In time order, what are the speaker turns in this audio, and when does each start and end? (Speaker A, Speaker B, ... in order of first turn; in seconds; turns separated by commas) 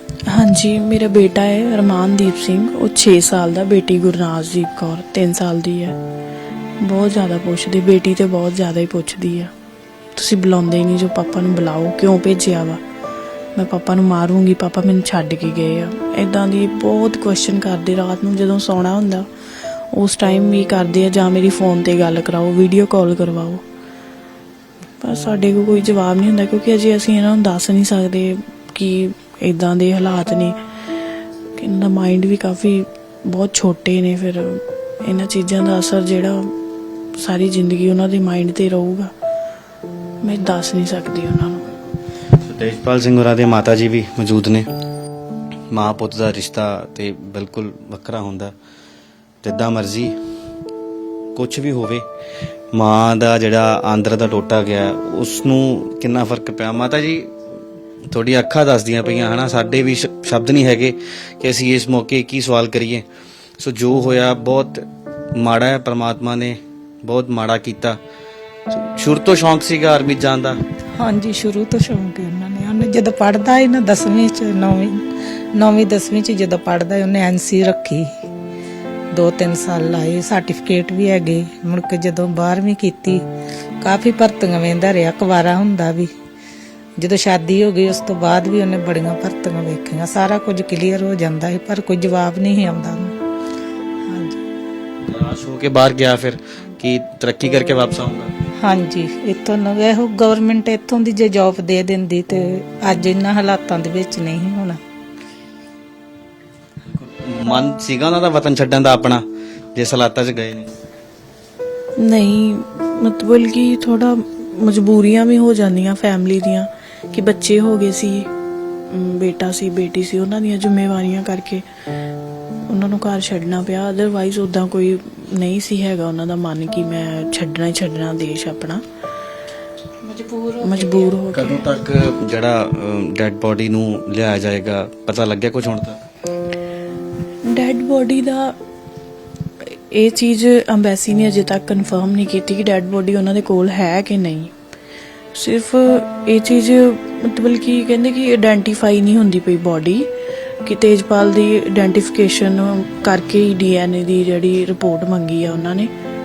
Speaker A: 0.3-6.0, Speaker A: 6.8-9.5, Speaker A: 10.2-12.8, Speaker A: 13.6-19.3, Speaker A: 19.9-23.6, Speaker A: 25.0-30.6, Speaker A: 31.6-36.5, Speaker A: 37.2-39.1, Speaker A: 40.2-41.6, Speaker B: 42.3-44.7, Speaker B: 45.7-48.5, Speaker B: 49.4-50.1, Speaker B: 51.4-52.0, Speaker B: 52.7-57.3, Speaker B: 58.1-63.0, Speaker B: 63.6-68.0, Speaker B: 68.7-70.6, Speaker C: 71.0-78.1, Speaker C: 79.1-83.2, Speaker C: 83.8-86.1, Speaker C: 87.0-93.2, Speaker C: 94.1-94.4, Speaker B: 95.0-98.3, Speaker C: 98.6-104.8, Speaker B: 106.8-109.2, Speaker B: 109.8-110.7, Speaker A: 112.0-118.3, Speaker A: 118.9-121.7, Speaker A: 122.7-128.8, Speaker C: 130.0-131.2, Speaker A: 130.6-131.7, Speaker B: 131.3-136.0, Speaker A: 137.5-138.6, Speaker A: 139.6-144.5, Speaker A: 145.3-150.1, Speaker A: 150.7-155.9